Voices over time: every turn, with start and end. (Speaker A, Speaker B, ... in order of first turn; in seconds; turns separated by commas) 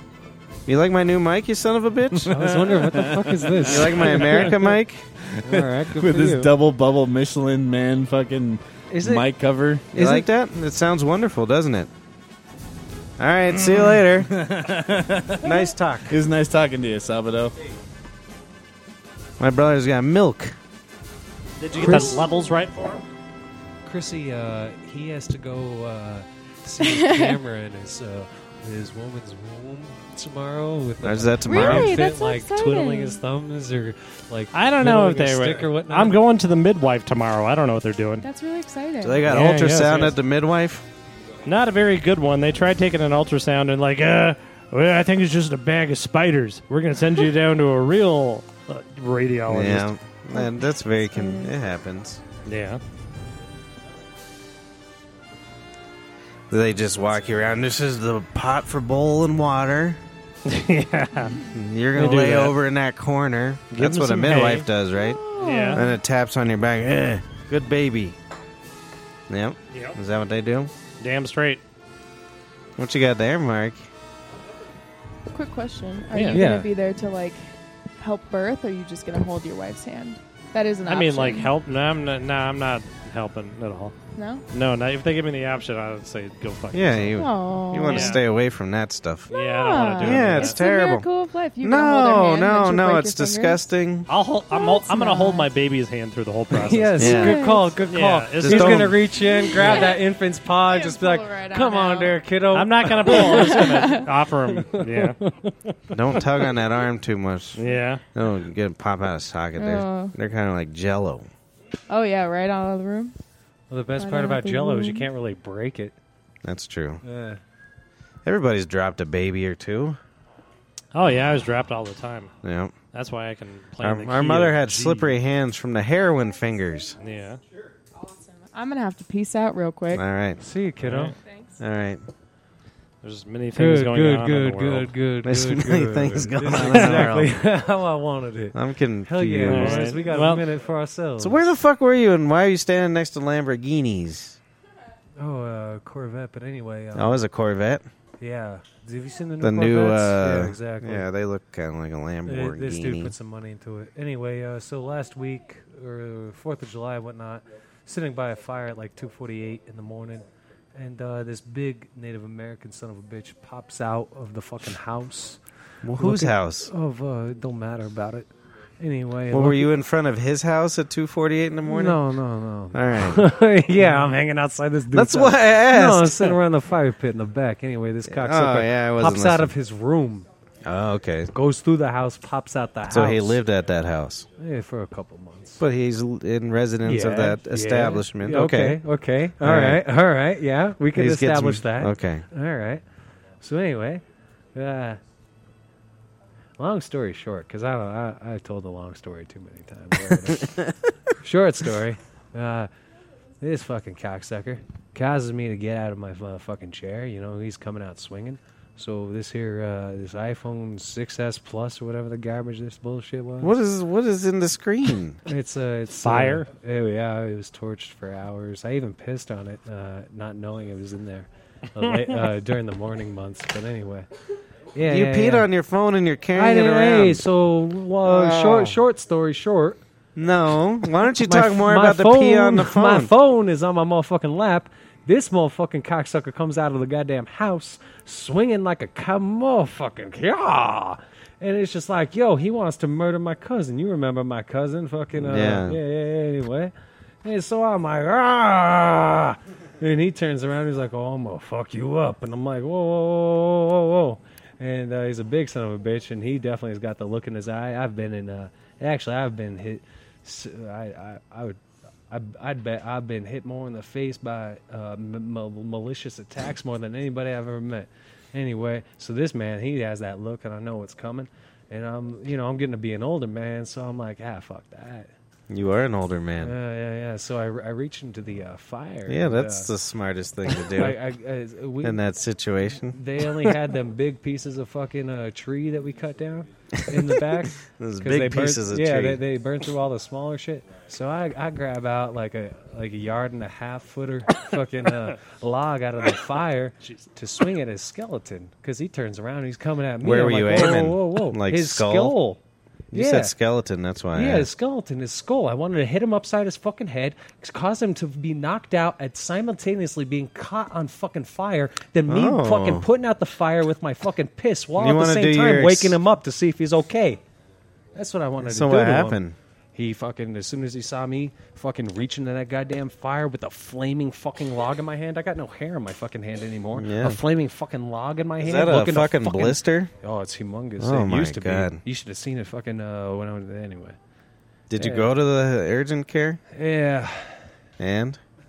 Speaker A: 0.7-2.4, Speaker B: 2.2-4.5, Speaker C: 2.3-4.6, Speaker A: 3.6-5.0, Speaker B: 5.2-9.9, Speaker C: 5.4-6.5, Speaker C: 8.9-9.3, Speaker A: 9.9-11.9, Speaker C: 9.9-10.2, Speaker A: 13.2-14.3, Speaker B: 13.5-15.6, Speaker A: 15.4-16.2, Speaker B: 16.1-17.6, Speaker A: 19.4-20.6, Speaker D: 21.6-23.1, Speaker C: 21.7-22.2, Speaker C: 23.9-36.2, Speaker E: 26.9-27.4, Speaker A: 31.0-32.0, Speaker E: 31.4-33.2, Speaker D: 34.5-38.2, Speaker E: 38.2-39.3, Speaker A: 39.0-40.9, Speaker D: 39.3-40.2, Speaker D: 41.5-49.9, Speaker A: 49.5-52.2, Speaker E: 50.3-51.5, Speaker D: 52.5-52.8, Speaker A: 56.5-60.0, Speaker D: 60.5-61.4, Speaker A: 61.5-65.2, Speaker D: 62.0-62.5, Speaker D: 63.7-64.7, Speaker E: 65.0-66.0, Speaker D: 65.4-65.8, Speaker A: 65.7-68.2, Speaker A: 69.3-70.7, Speaker D: 71.0-71.6, Speaker A: 72.8-73.8, Speaker E: 75.3-77.5, Speaker D: 76.1-76.5, Speaker C: 76.3-76.7, Speaker E: 78.0-81.5, Speaker D: 80.8-83.9, Speaker E: 84.2-84.5, Speaker D: 84.5-87.2, Speaker A: 86.7-89.3, Speaker E: 87.2-88.2, Speaker D: 87.8-88.2, Speaker D: 89.3-90.6, Speaker E: 89.3-93.6, Speaker A: 90.0-91.1, Speaker A: 91.6-94.1, Speaker D: 94.1-97.3, Speaker E: 94.5-95.5, Speaker C: 96.5-105.5, Speaker A: 97.0-97.4, Speaker E: 97.0-97.8, Speaker D: 97.8-99.0, Speaker A: 98.4-99.0, Speaker E: 99.2-100.0, Speaker D: 99.6-99.9, Speaker E: 100.7-102.2, Speaker D: 102.5-105.2, Speaker E: 103.1-104.1, Speaker A: 105.9-107.6, Speaker D: 107.6-108.0, Speaker A: 108.1-111.3, Speaker E: 109.6-110.1, Speaker E: 111.9-113.2, Speaker C: 113.7-116.0, Speaker E: 114.0-115.1, Speaker A: 116.4-117.0, Speaker C: 117.0-117.4, Speaker A: 118.2-120.0, Speaker D: 120.9-122.3, Speaker A: 122.4-122.8, Speaker D: 122.9-125.1, Speaker A: 123.8-127.0, Speaker D: 127.0-127.4, Speaker E: 128.0-130.0, Speaker A: 129.9-130.4, Speaker C: 130.4-131.2, Speaker D: 130.8-131.2, Speaker E: 131.2-131.6, Speaker A: 131.6-132.0, Speaker D: 133.0-134.9, Speaker C: 133.6-141.5, Speaker A: 135.2-137.3, Speaker D: 136.6-137.2, Speaker A: 138.5-139.9, Speaker D: 139.4-140.5, Speaker A: 141.2-144.4, Speaker C: 145.2-147.2, Speaker A: 146.9-147.8, Speaker C: 148.2-151.1, Speaker A: 149.4-153.1, Speaker C: 152.3-165.4, Speaker A: 165.8-166.7, Speaker C: 166.0-168.3, Speaker C: 168.8-169.7, Speaker A: 169.3-172.0, Speaker C: 171.7-180.3, Speaker A: 172.7-173.3, Speaker A: 174.9-176.4, Speaker A: 178.1-179.5, Speaker A: 180.6-181.3, Speaker C: 181.3-183.4, Speaker A: 182.9-184.3, Speaker C: 184.4-185.6, Speaker A: 185.6-188.8, Speaker C: 186.8-192.8, Speaker A: 189.4-189.8, Speaker A: 190.9-192.2, Speaker C: 193.4-194.0, Speaker C: 194.6-195.0, Speaker C: 196.6-200.7, Speaker C: 201.2-202.7, Speaker C: 203.4-213.6, Speaker A: 213.4-215.2, Speaker C: 215.3-224.1, Speaker D: 216.0-216.5, Speaker C: 224.7-225.5, Speaker A: 224.8-227.2, Speaker C: 226.3-229.8, Speaker A: 228.0-228.8, Speaker A: 230.2-233.1, Speaker C: 231.2-246.7, Speaker A: 245.2-245.8, Speaker C: 247.2-261.6, Speaker C: 262.1-275.1, Speaker A: 275.5-276.6, Speaker C: 276.4-279.7, Speaker A: 279.1-281.0, Speaker C: 280.7-282.0, Speaker A: 281.8-283.0, Speaker C: 282.9-302.4, Speaker A: 286.9-289.2, Speaker A: 300.0-302.1, Speaker C: 302.9-303.3, Speaker A: 302.9-304.5, Speaker C: 304.1-317.2, Speaker A: 312.1-312.9, Speaker A: 314.8-316.0, Speaker C: 317.9-319.2, Speaker A: 318.4-319.4, Speaker C: 319.8-334.0, Speaker A: 326.8-327.2, Speaker A: 328.4-329.9, Speaker A: 330.8-331.8, Speaker A: 334.7-336.4, Speaker C: 334.8-335.2, Speaker C: 336.5-337.5, Speaker A: 337.8-338.2